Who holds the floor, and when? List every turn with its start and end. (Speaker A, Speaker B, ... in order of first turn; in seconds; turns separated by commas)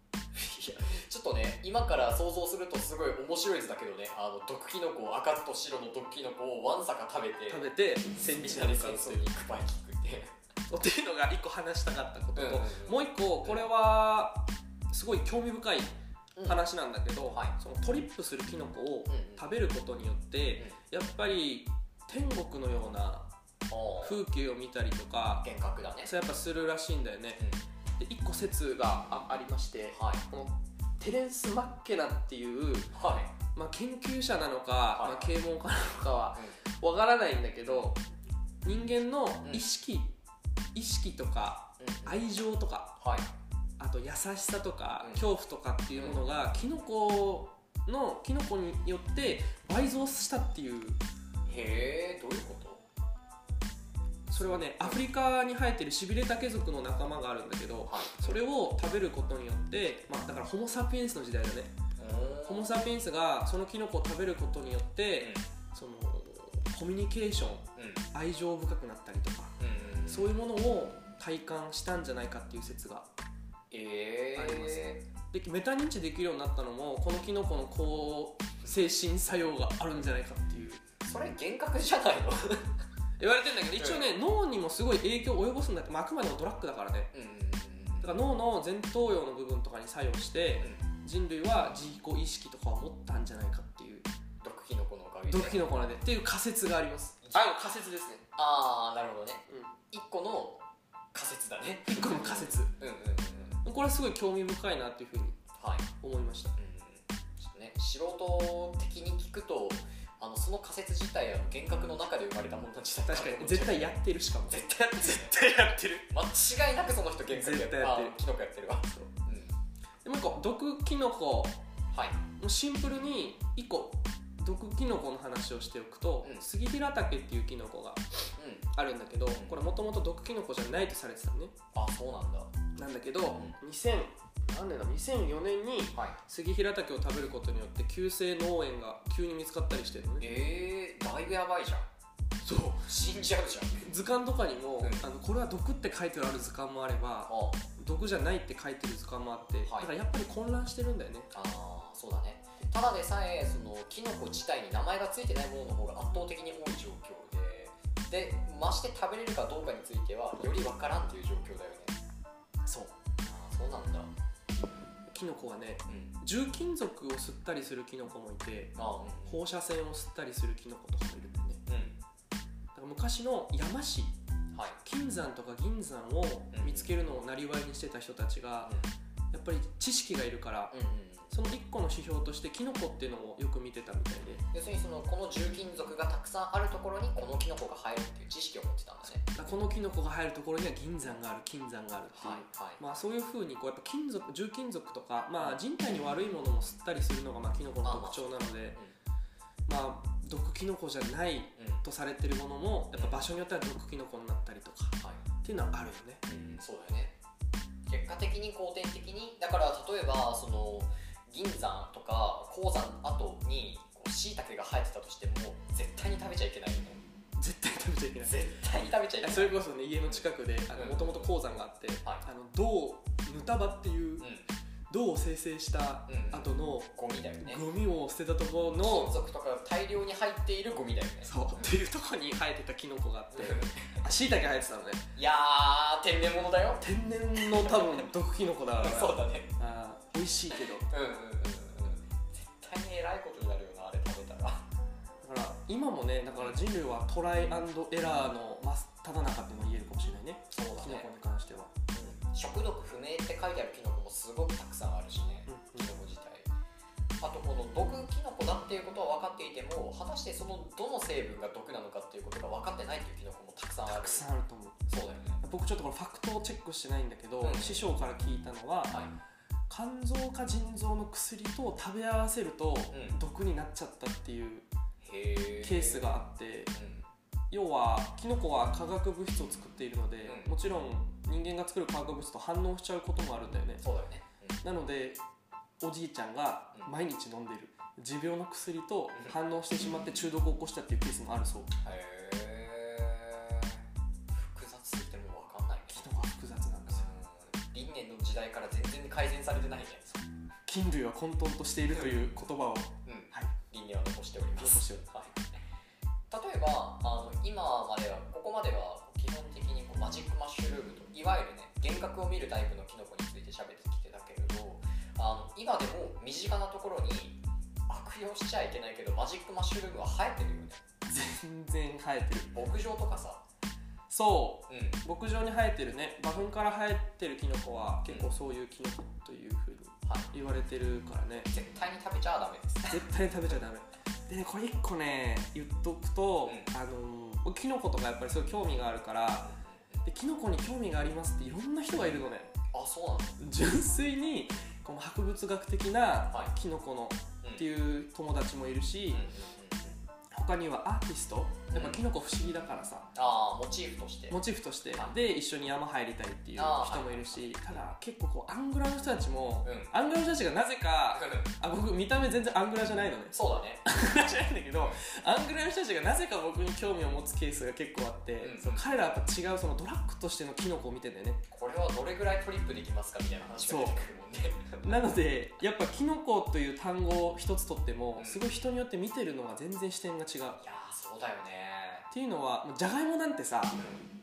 Speaker A: 0.3-10.3, Speaker B: 7.5-9.3, Speaker B: 10.7-23.3, Speaker A: 12.3-13.7, Speaker A: 16.4-16.6, Speaker A: 17.3-17.5, Speaker A: 19.1-19.5, Speaker A: 23.7-24.2, Speaker B: 24.0-25.4, Speaker A: 25.4-26.1, Speaker B: 26.0-27.4, Speaker A: 27.4-27.6, Speaker B: 28.0-32.9, Speaker A: 29.9-30.2, Speaker A: 32.9-33.3, Speaker B: 33.5-38.0, Speaker A: 34.9-35.3, Speaker B: 38.6-40.1, Speaker B: 40.7-43.0, Speaker A: 41.8-42.2, Speaker A: 43.0-43.3, Speaker B: 43.8-51.0, Speaker A: 45.0-45.3, Speaker A: 46.0-46.2, Speaker A: 51.5-52.8, Speaker B: 54.3-61.7, Speaker A: 54.3-55.0, Speaker A: 57.9-58.4, Speaker A: 62.0-62.7, Speaker B: 62.4-69.5, Speaker A: 65.2-65.5, Speaker A: 67.8-68.0, Speaker A: 69.6-70.3, Speaker B: 70.0-73.1, Speaker A: 73.7-75.0, Speaker B: 74.3-80.8, Speaker A: 81.0-82.7, Speaker B: 83.2-87.1, Speaker A: 83.7-84.1, Speaker A: 87.1-88.1, Speaker B: 88.0-94.1, Speaker A: 90.6-90.8, Speaker A: 94.4-95.6, Speaker B: 95.3-98.2, Speaker A: 97.2-97.5, Speaker A: 98.3-100.6, Speaker A: 101.1-103.6, Speaker B: 101.8-102.7, Speaker B: 103.6-105.4, Speaker A: 105.6-105.9, Speaker B: 106.0-106.5, Speaker A: 106.5-115.3, Speaker B: 113.0-116.0, Speaker A: 116.1-119.5, Speaker B: 117.3-118.2, Speaker B: 120.0-121.6, Speaker A: 121.9-122.2, Speaker B: 122.4-128.0, Speaker A: 128.4-128.7, Speaker B: 128.7-131.5, Speaker A: 129.3-129.6, Speaker A: 131.7-132.5, Speaker B: 132.8-140.2, Speaker A: 133.3-133.6, Speaker A: 140.2-141.9, Speaker B: 142.4-142.9, Speaker A: 142.8-143.9, Speaker B: 143.8-151.3, Speaker A: 144.8-145.1, Speaker A: 147.3-147.6, Speaker A: 149.6-149.9, Speaker A: 151.3-162.0, Speaker B: 162.6-162.9, Speaker A: 163.2-164.1, Speaker B: 165.1-168.8, Speaker A: 165.9-166.1, Speaker A: 168.8-169.4, Speaker B: 169.3-171.6, Speaker A: 171.7-172.0, Speaker B: 172.7-174.2, Speaker A: 174.5-174.8, Speaker B: 174.8-178.7, Speaker A: 176.5-176.9, Speaker B: 179.3-180.7, Speaker A: 180.7-181.3, Speaker B: 181.3-184.4, Speaker A: 184.5-189.2, Speaker B: 189.2-198.8, Speaker A: 192.1-192.8, Speaker A: 197.8-198.9, Speaker B: 199.7-206.2, Speaker A: 201.6-201.8, Speaker A: 202.9-203.2, Speaker A: 206.2-207.1, Speaker A: 207.8-217.0, Speaker B: 217.4-218.4, Speaker A: 218.2-221.3, Speaker B: 219.2-224.3, Speaker A: 224.2-224.5, Speaker B: 224.9-229.2, Speaker A: 226.1-227.6, Speaker A: 228.8-231.7, Speaker B: 231.2-235.0, Speaker A: 233.3-234.0, Speaker A: 235.1-238.1, Speaker B: 236.8-240.9, Speaker A: 238.7-239.5, Speaker A: 240.9-244.6, Speaker B: 245.2-251.7, Speaker A: 250.5-251.1, Speaker A: 251.9-256.5, Speaker B: 255.4-255.9, Speaker A: 257.2-264.2, Speaker B: 263.9-264.9, Speaker A: 264.9-265.4, Speaker B: 265.4-269.0, Speaker A: 267.4-267.9, Speaker B: 269.7-274.6, Speaker A: 272.9-273.2, Speaker A: 275.0-276.2, Speaker B: 275.6-276.7, Speaker A: 276.7-277.1, Speaker B: 277.5-283.8, Speaker A: 280.2-280.5, Speaker A: 283.8-284.6, Speaker B: 284.6-285.2, Speaker B: 285.8-291.7, Speaker A: 291.8-296.3, Speaker B: 295.9-297.0, Speaker A: 296.9-300.2, Speaker B: 300.7-303.5, Speaker A: 301.9-302.4, Speaker A: 303.1-305.6, Speaker B: 304.6-305.1, Speaker A: 306.3-320.8, Speaker B: 321.1-322.5, Speaker A: 322.5-323.4, Speaker B: 324.1-331.5, Speaker A: 324.7-325.0, Speaker A: 330.1-330.3, Speaker A: 331.5-333.6, Speaker B: 332.9-339.5, Speaker A: 339.4-340.0, Speaker B: 340.0-342.5, Speaker A: 342.7-343.4, Speaker B: 343.4-349.2, Speaker A: 349.1-350.0, Speaker B: 350.3-353.1, Speaker A: 351.7-352.0, Speaker A: 353.1-354.4, Speaker B: 354.3-371.4, Speaker A: 356.6-357.9, Speaker A: 359.6-359.9, Speaker A: 361.1-361.5, Speaker A: 363.3-363.8, Speaker A: 368.4-368.9, Speaker A: 371.5-375.0, Speaker B: 373.6-374.0, Speaker B: 374.8-380.6, Speaker A: 378.2-378.4, Speaker A: 380.6-382.1, Speaker B: 382.1-383.8, Speaker A: 383.8-384.1